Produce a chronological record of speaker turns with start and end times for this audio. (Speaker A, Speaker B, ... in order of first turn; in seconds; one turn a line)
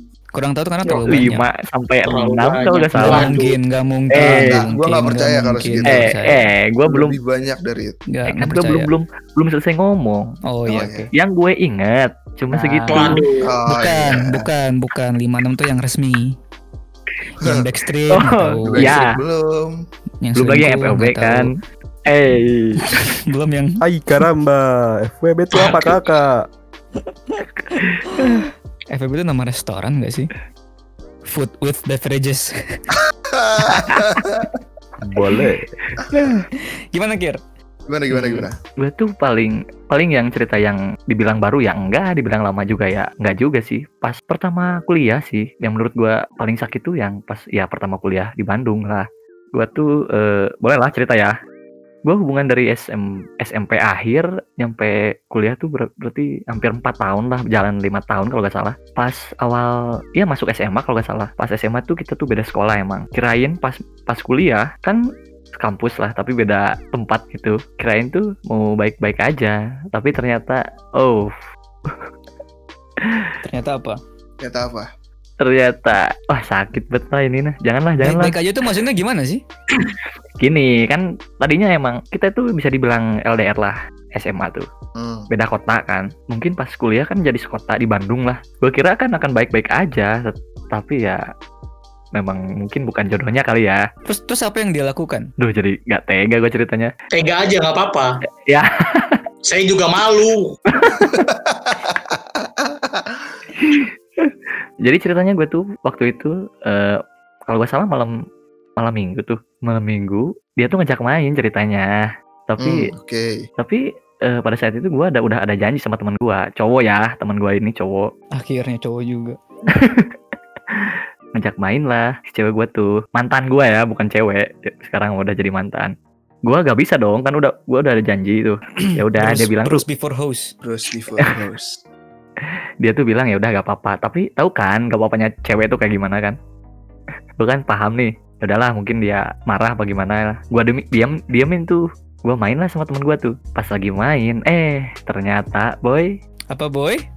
Speaker A: 0.3-1.4
Speaker B: 1.1-3.4
Speaker C: 2.0-3.6
Speaker A: 2.9-6.5
Speaker B: 4.1-4.6
Speaker D: 4.4-8.0
Speaker B: 5.9-7.2
Speaker A: 8.1-8.9
Speaker B: 8.3-10.3
Speaker A: 10.4-11.1
Speaker D: 10.7-11.1
Speaker B: 11.1-13.2
Speaker A: 12.5-16.4
Speaker C: 12.9-13.6
Speaker D: 13.4-14.4
Speaker A: 17.4-19.0
Speaker D: 17.4-17.6
Speaker B: 18.1-19.1
Speaker D: 18.7-19.8
Speaker A: 20.2-21.5
Speaker B: 20.4-21.5
Speaker B: 22.1-22.8
Speaker A: 22.9-23.8
Speaker E: 23.8-26.4
Speaker A: 28.1-30.3
Speaker A: 31.2-32.8
Speaker D: 33.1-34.5
Speaker A: 33.7-34.0
Speaker E: 35.0-35.7
Speaker D: 36.0-36.4
Speaker A: 36.1-37.4
Speaker D: 37.9-38.6
Speaker B: 38.1-51.3
Speaker B: 52.0-65.0
Speaker B: 65.5-72.1
Speaker B: 73.0-73.3
Speaker A: 73.4-74.0
Speaker D: 74.4-74.9
Speaker B: 75.4-78.3
Speaker A: 78.0-79.4
Speaker B: 79.7-84.7
Speaker D: 85.0-85.3
Speaker B: 85.3-91.2
Speaker B: 92.2-93.8
Speaker A: 94.0-95.3
Speaker B: 95.4-96.9
Speaker C: 97.1-98.1
Speaker B: 98.5-99.2
Speaker C: 99.5-100.5
Speaker B: 100.7-101.3
Speaker D: 101.0-103.2
Speaker B: 103.6-108.1
Speaker B: 108.8-112.9
Speaker D: 112.6-113.5
Speaker B: 113.6-118.1
Speaker A: 118.4-119.4
Speaker B: 119.7-120.1
Speaker B: 120.7-125.9
Speaker B: 126.5-129.8
Speaker A: 128.8-130.5
Speaker D: 130.6-131.8
Speaker B: 132.8-136.4
Speaker B: 137.4-146.1
Speaker A: 146.5-147.0